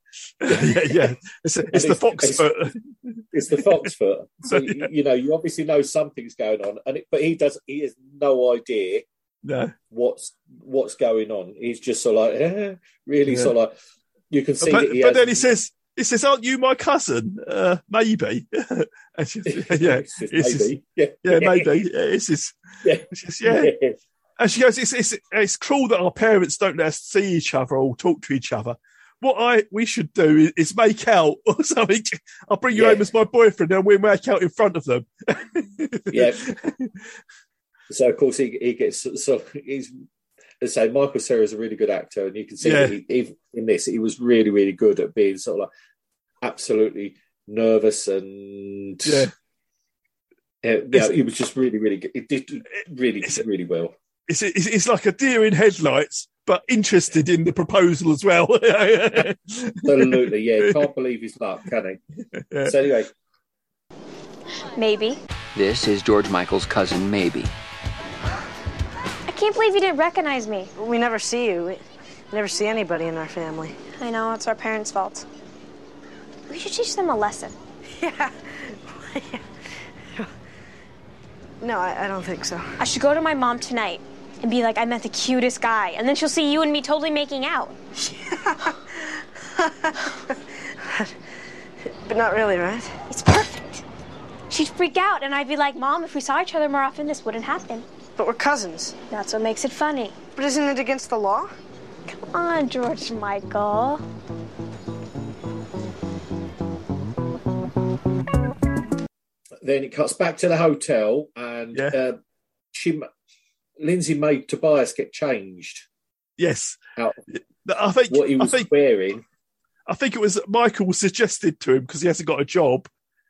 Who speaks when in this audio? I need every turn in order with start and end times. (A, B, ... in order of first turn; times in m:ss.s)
0:00.4-0:03.2 A
0:00.5-0:01.1 B
0:01.7-0:02.5 B
0:03.3-0:09.0 B
0:04.5-0:04.9 A
0:09.4-0:09.7 A
0:09.9-0:13.7 B
0:14.3-0:15.5 B
0:14.6-0:20.7 A
0:19.5-0:21.8 B
0:21.2-0:22.6 A
0:22.8-0:23.9 B
0:23.1-0:23.7 A
0:24.4-0:36.9 A
0:32.7-0:33.0 B
0:36.1-0:36.4 B
0:37.9-0:39.9 B
0:40.6-0:45.7 B
0:42.6-0:43.0 A
0:46.4-0:49.3 B
0:49.0-0:49.3 A
0:50.6-0:53.9 B
0:54.3-1:00.7 A
0:59.8-1:02.0 B
1:02.5-1:02.8 A
1:02.6-1:03.1 B
1:04.8-1:05.2 C
1:05.5-1:07.5 D
1:09.3-1:10.7 C
1:10.8-1:13.8 E
1:14.0-1:15.2 C
1:16.5-1:17.6 C
1:17.9-1:19.4 E
1:21.6-1:22.7 E
1:22.8-1:27.7 C
1:28.0-1:31.1 E
1:32.0-1:33.0 E
1:33.1-1:33.8 C
1:34.5-1:37.9 C
1:38.2-1:39.0 E
1:39.1-1:40.2 C
1:40.3-1:41.5 E
1:42.3-1:44.0 C
1:49.6-1:52.2 B
1:52.7-1:53.1 B
1:53.8-1:55.8 B
1:56.4-1:56.8 A
1:57.3-1:58.7 A
1:58.1-1:59.2 B
1:59.9-2:02.9 A